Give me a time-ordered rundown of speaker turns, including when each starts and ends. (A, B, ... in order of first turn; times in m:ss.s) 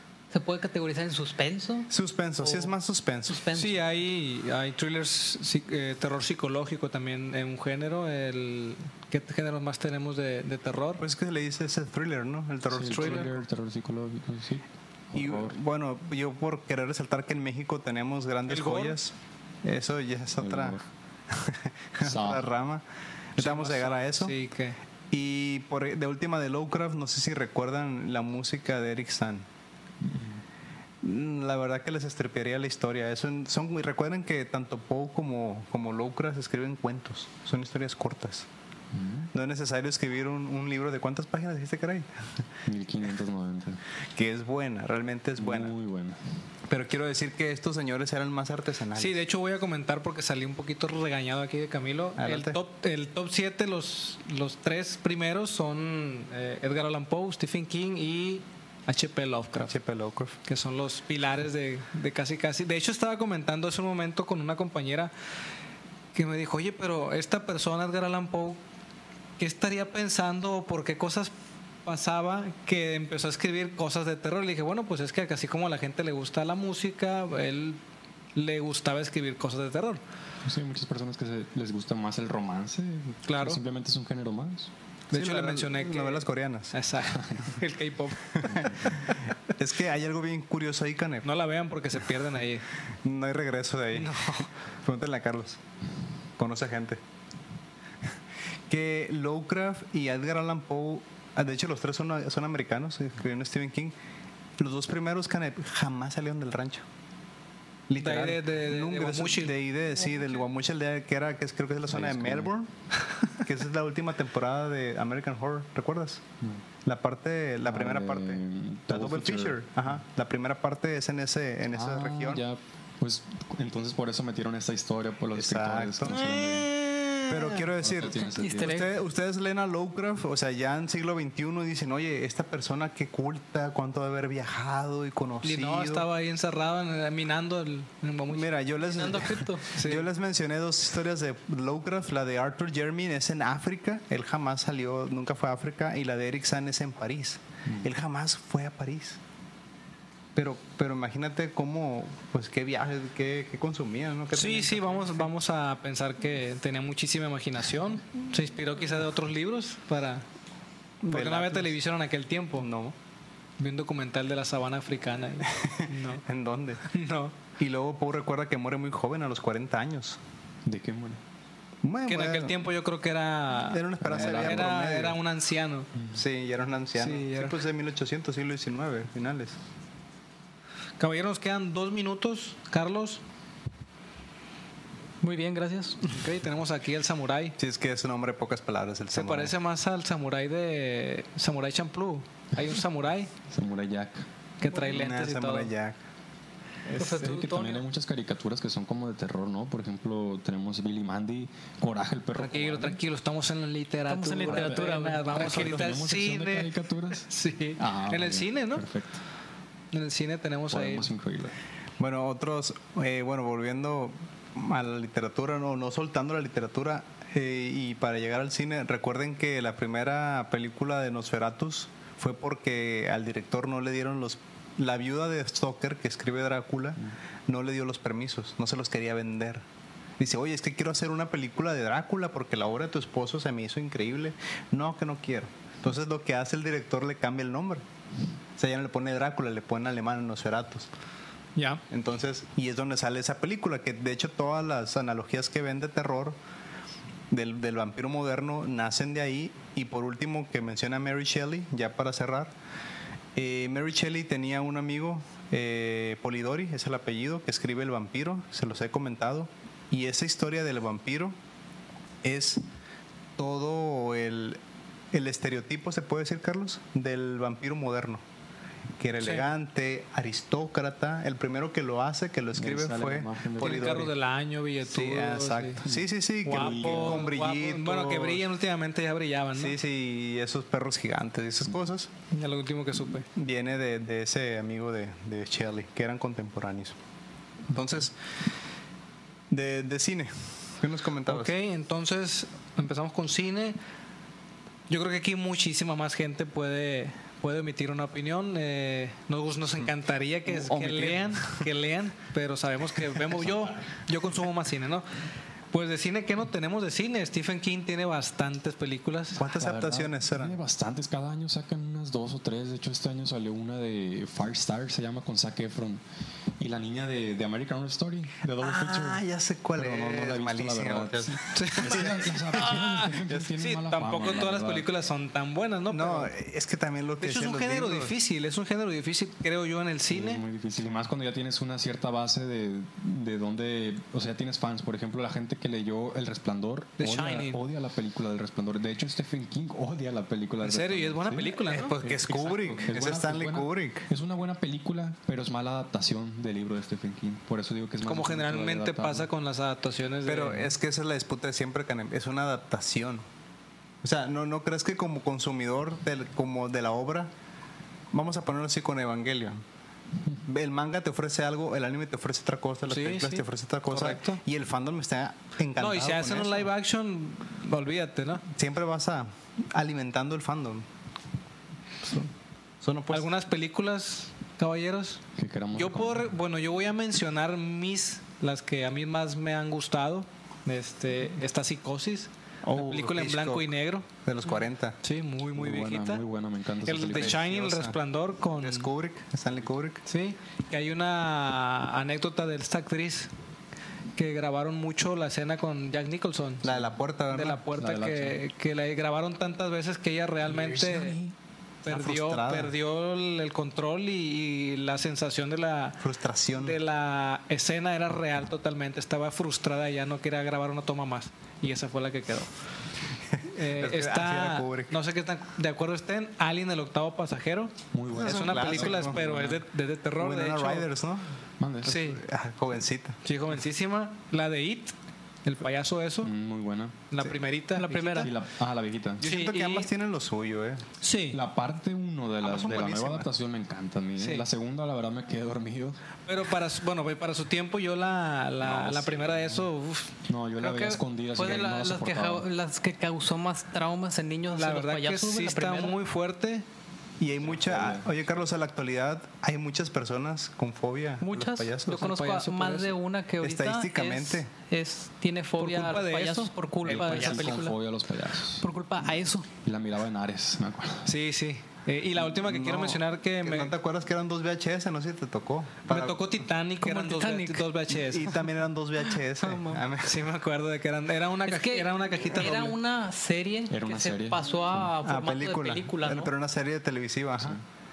0:00.3-0:01.9 A
0:01.9-0:03.4 B
0:02.4-0:02.7 A
0:03.3-0:03.8 A
0:03.5-0:11.0 C
0:11.0-0:13.3 B
0:12.7-0:15.6 D
0:12.8-0:13.3 C
0:15.1-0:20.8 B
0:18.5-0:19.0 C
0:20.4-0:20.8 D
0:21.3-0:22.8 B
0:22.0-0:22.5 D
0:23.4-0:24.3 B
0:23.4-0:24.8 C
0:25.1-0:29.4 B
0:30.0-0:30.4 D
0:31.0-0:38.5 B
0:38.9-0:39.3 D
0:39.3-0:42.1 B
0:42.6-0:43.8 D
0:44.1-0:45.7 B
0:45.4-0:46.2 D
0:46.7-0:49.2 B
0:48.9-0:59.7 C
0:52.2-0:52.6 B
0:59.6-1:00.3 B
1:00.4-1:05.1 C
1:06.1-1:08.6 C
1:09.4-1:11.3 C
1:11.8-1:17.8 C
1:18.3-1:20.0 C
1:20.4-1:24.7 D
1:23.3-1:23.6 C
1:25.1-1:26.7 B
1:25.1-1:28.9 C
1:27.1-1:27.6 D
1:28.4-1:31.2 B
1:31.2-1:32.7 C
1:33.0-1:35.6 B
1:33.9-1:34.5 C
1:36.4-1:37.0 B
1:38.7-1:43.9 B
1:44.6-1:46.8 B
1:47.9-1:52.7 B
1:48.0-1:49.5 C
1:51.9-1:52.5 D
1:53.4-1:56.2 B
1:56.8-2:02.4 B
1:57.6-1:59.6 D
2:01.7-2:06.7 D
2:05.4-2:06.2 B
2:06.2-2:07.5 C
2:07.3-2:16.0 B
2:07.8-2:08.8 D
2:08.2-2:08.9 A
2:15.4-2:19.1 C
2:18.3-2:29.2 B
2:18.9-2:19.6 A
2:19.7-2:20.1 C
2:30.4-2:35.3 B
2:34.3-2:40.2 C
2:41.0-2:41.7 B
2:41.0-2:42.7 C
2:42.6-2:42.9 B
2:43.6-2:46.2 C
2:45.6-2:46.8 B
2:46.9-2:47.3 C
2:47.6-2:50.2 B
2:50.6-2:51.2 D
2:51.8-2:52.5 B
2:52.0-2:55.9 C
2:53.7-2:55.2 B
2:54.0-2:54.7 D
2:55.9-2:56.2 D
2:56.1-2:59.6 B
2:57.0-2:57.6 C
3:01.0-3:03.2 C
3:05.2-3:06.0 A
3:06.1-3:07.6 C
3:07.6-3:09.5 B
3:09.1-3:13.3 C
3:13.5-3:14.3 D
3:14.6-3:15.7 C
3:14.7-3:16.0 B
3:16.9-3:17.2 B
3:16.9-3:17.8 A
3:17.1-3:23.0 D
3:22.3-3:28.9 C
3:24.1-3:25.7 A
3:24.4-3:29.2 D
3:29.9-3:31.1 C
3:30.7-3:31.6 D
3:32.0-3:49.6 B
3:50.2-3:57.8 B
3:58.6-4:00.9 B
4:01.6-4:01.8 C
4:01.9-4:06.4 B
4:07.3-4:12.5 B
4:13.3-4:21.3 B
4:22.2-4:22.6 B
4:23.4-4:24.6 B
4:25.1-4:28.2 B
4:29.0-4:34.1 B
4:29.2-4:29.5 C
4:32.5-4:34.1 D
4:33.6-4:35.8 C
4:34.8-4:38.4 B
4:35.8-4:37.3 D
4:36.4-4:39.8 C
4:39.5-4:42.1 B
4:42.3-4:43.2 C
4:43.3-4:47.0 B
4:47.7-4:48.1 B
4:49.5-4:51.5 B
4:51.3-4:53.8 C
4:54.9-5:05.0 C
5:00.4-5:01.6 B
5:03.3-5:04.0 D
5:05.7-5:09.4 C
5:09.4-5:10.6 B
5:09.5-5:16.0 D
5:16.6-5:19.2 D
5:18.6-5:23.5 B
5:19.7-5:24.9 D
5:21.5-5:26.3 C
5:25.9-5:28.1 B
5:27.2-5:30.4 C
5:30.1-5:49.3 D
5:37.0-5:37.6 C
5:40.6-5:42.0 C
5:41.7-5:44.0 B
5:48.0-5:50.7 C
5:50.2-5:53.2 B
5:54.0-5:57.3 B
5:58.1-5:59.6 B
6:00.4-6:06.7 B
6:02.9-6:04.4 C
6:05.8-6:08.4 C
6:08.5-6:10.8 B
6:12.8-6:13.3 B
6:13.1-6:15.2 C
6:15.4-6:16.3 D
6:15.7-6:24.1 C
6:22.6-6:25.0 B
6:25.0-6:26.2 C
6:25.5-6:27.4 D
6:26.8-6:28.9 C
6:27.0-6:28.0 B
6:28.5-6:30.0 B
6:30.0-6:33.3 C
6:34.2-6:36.7 C
6:36.6-6:37.6 B
6:37.3-6:41.2 C
6:37.8-6:38.4 D
6:40.5-6:41.3 D
6:41.8-6:46.0 C
6:41.9-6:42.7 B
6:46.0-6:46.8 B
6:46.6-6:52.5 C
6:53.5-7:00.9 C
6:53.6-6:54.9 B
6:57.9-6:59.6 D
6:58.2-6:59.2 B
7:00.2-7:01.3 B
7:01.6-7:02.0 D
7:01.8-7:03.2 B
7:01.8-7:02.2 C
7:03.2-7:04.9 C
7:05.4-7:06.3 C
7:06.2-7:07.0 D
7:07.1-7:08.3 C
7:07.8-7:08.3 A
7:08.2-7:09.2 D
7:09.2-7:10.8 B
7:09.2-7:09.9 C
7:11.0-7:11.3 A
7:11.3-7:16.0 D
7:12.4-7:13.3 B
7:14.2-7:14.5 C
7:16.3-7:20.1 C
7:18.6-7:19.6 D
7:20.3-7:22.5 D
7:20.6-7:26.0 A
7:24.5-7:26.6 C
7:27.2-7:32.0 B
7:27.4-7:28.1 D
7:31.2-7:37.8 A
7:31.9-7:32.9 C
7:33.4-7:34.5 B
7:35.6-7:37.6 C
7:36.8-7:38.7 D
7:38.6-7:39.5 A
7:39.6-7:41.1 D
7:41.0-7:43.7 C
7:42.2-7:46.2 B
7:45.9-7:48.4 C
7:46.8-7:47.6 A
7:47.9-7:50.2 B
7:49.4-7:49.8 A
7:50.0-7:52.8 C
7:51.4-7:56.3 A
7:53.7-7:54.9 D
7:55.0-7:57.6 B